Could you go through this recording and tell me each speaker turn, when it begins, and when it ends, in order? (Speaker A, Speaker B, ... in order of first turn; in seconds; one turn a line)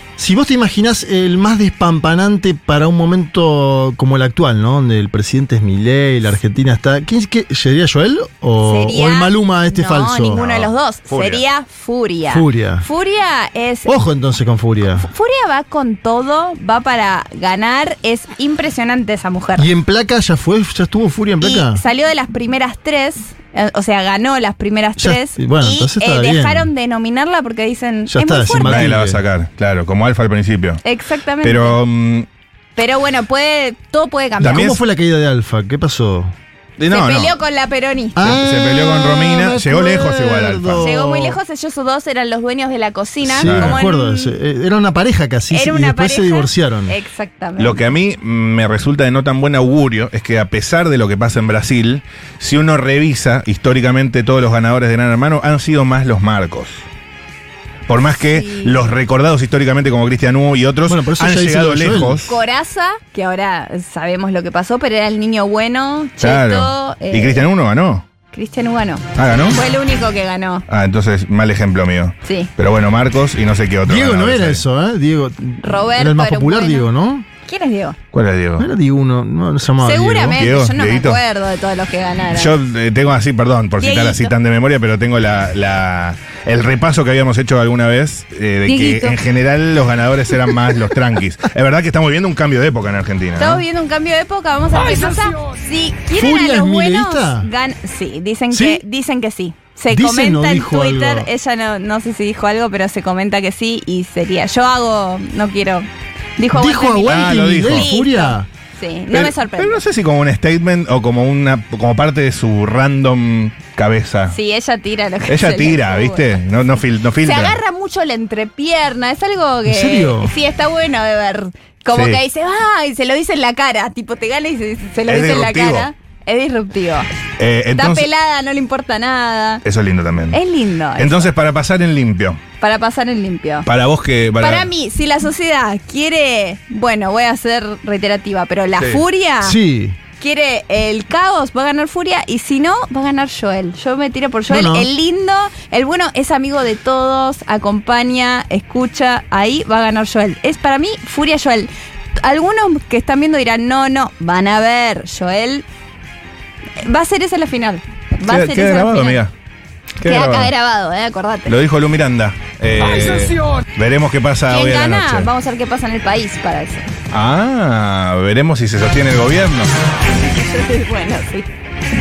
Speaker A: 0.2-10.4
Speaker B: 8.6-14.0
Speaker C: 10.3-11.4
Speaker A: 12.3-12.9
Speaker A: 13.9-15.1
Speaker B: 14.9-19.7
Speaker A: 19.6-21.8
Speaker B: 21.4-28.9
Speaker A: 25.0-26.7
Speaker A: 28.1-29.2
Speaker C: 28.6-30.8
Speaker B: 30.8-31.8
Speaker C: 31.4-32.3
Speaker B: 32.8-34.8
Speaker A: 34.4-36.3
Speaker C: 34.4-34.8
Speaker C: 36.8-37.3
Speaker B: 36.9-38.4
Speaker A: 38.2-41.4
Speaker C: 38.2-40.9
Speaker B: 40.8-44.4
Speaker A: 43.3-47.0
Speaker C: 43.4-43.8
Speaker B: 45.5-47.8
Speaker C: 47.6-56.9
Speaker C: 57.9-62.4
Speaker B: 58.2-58.8
Speaker A: 60.9-62.3
Speaker B: 62.3-67.5
Speaker C: 66.2-68.0
Speaker B: 68.3-70.7
Speaker C: 69.2-69.6
Speaker C: 70.7-74.6
Speaker B: 72.2-72.5
Speaker A: 73.8-77.2
Speaker B: 75.6-76.9
Speaker B: 77.5-78.0
Speaker C: 78.1-78.7
Speaker A: 78.6-80.5
Speaker B: 79.8-82.5
Speaker C: 80.3-81.2
Speaker C: 82.3-93.6
Speaker B: 83.8-84.3
Speaker B: 88.7-89.2
Speaker B: 93.4-109.8
Speaker A: 96.1-97.5
Speaker A: 98.5-98.8
Speaker A: 99.9-101.3
Speaker A: 106.5-108.5
Speaker C: 107.1-107.9
Speaker C: 109.1-114.4
Speaker B: 114.3-116.4
Speaker C: 115.3-117.6
Speaker B: 117.2-127.1
Speaker A: 119.7-120.3
Speaker C: 121.9-122.2
Speaker C: 125.1-125.9
Speaker C: 127.4-128.1
Speaker B: 127.8-129.6
Speaker C: 129.7-130.4
Speaker B: 130.3-131.3
Speaker C: 131.0-132.4
Speaker B: 132.6-133.7
Speaker C: 133.7-134.7
Speaker B: 134.4-139.6
Speaker C: 138.8-139.0
Speaker A: 139.4-140.0
Speaker B: 140.2-151.7
Speaker A: 144.5-144.9
Speaker B: 152.2-155.7
Speaker B: 156.8-159.2
Speaker C: 158.2-159.3
Speaker C: 160.0-160.5
Speaker B: 160.0-161.6
Speaker C: 161.5-165.3
Speaker B: 164.5-166.9
Speaker C: 167.1-169.7
Speaker B: 170.2-171.5